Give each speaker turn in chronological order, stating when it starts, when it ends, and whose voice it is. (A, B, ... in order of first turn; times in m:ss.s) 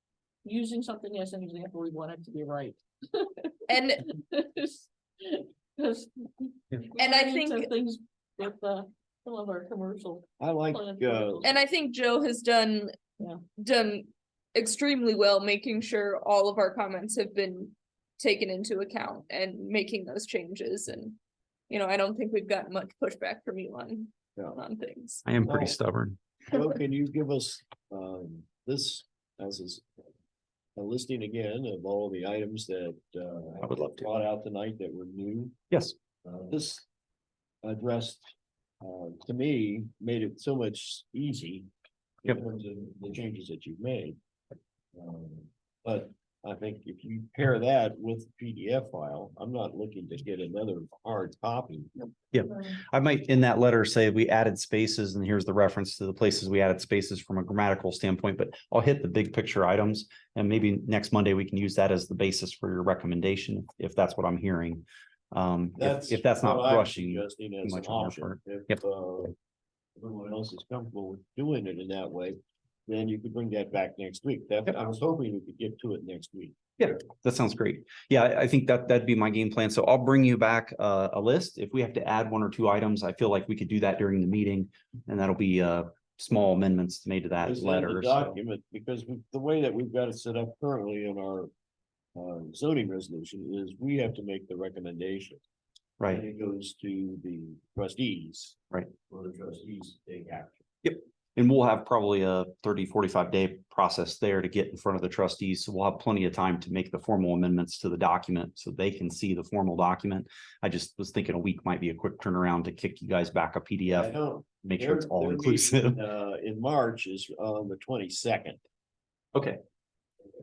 0:00.4-0:11.5 A
0:03.7-0:04.1 B
0:07.0-0:07.7 B
0:10.4-0:11.5 C
0:11.4-0:12.9 B
0:13.6-0:21.2 B
0:21.7-0:25.2 B
0:25.2-0:26.2 D
0:25.4-0:25.7 C
0:26.4-0:29.8 C
0:30.8-0:35.6 C
0:33.6-0:34.1 D
0:35.7-0:36.0 D
0:36.2-0:36.8 C
0:37.6-0:41.7 C
0:42.2-0:44.2 C
0:44.9-0:51.9 C
0:52.3-1:08.8 D
1:05.8-1:09.3 C
1:10.0-1:16.6 C
1:16.8-1:28.4 D
1:27.4-1:31.5 C
1:32.1-1:35.4 C
1:36.1-1:38.6 C
1:39.1-1:40.6 C
1:40.8-1:54.1 D
1:53.9-1:58.6 C
1:54.6-1:56.0 D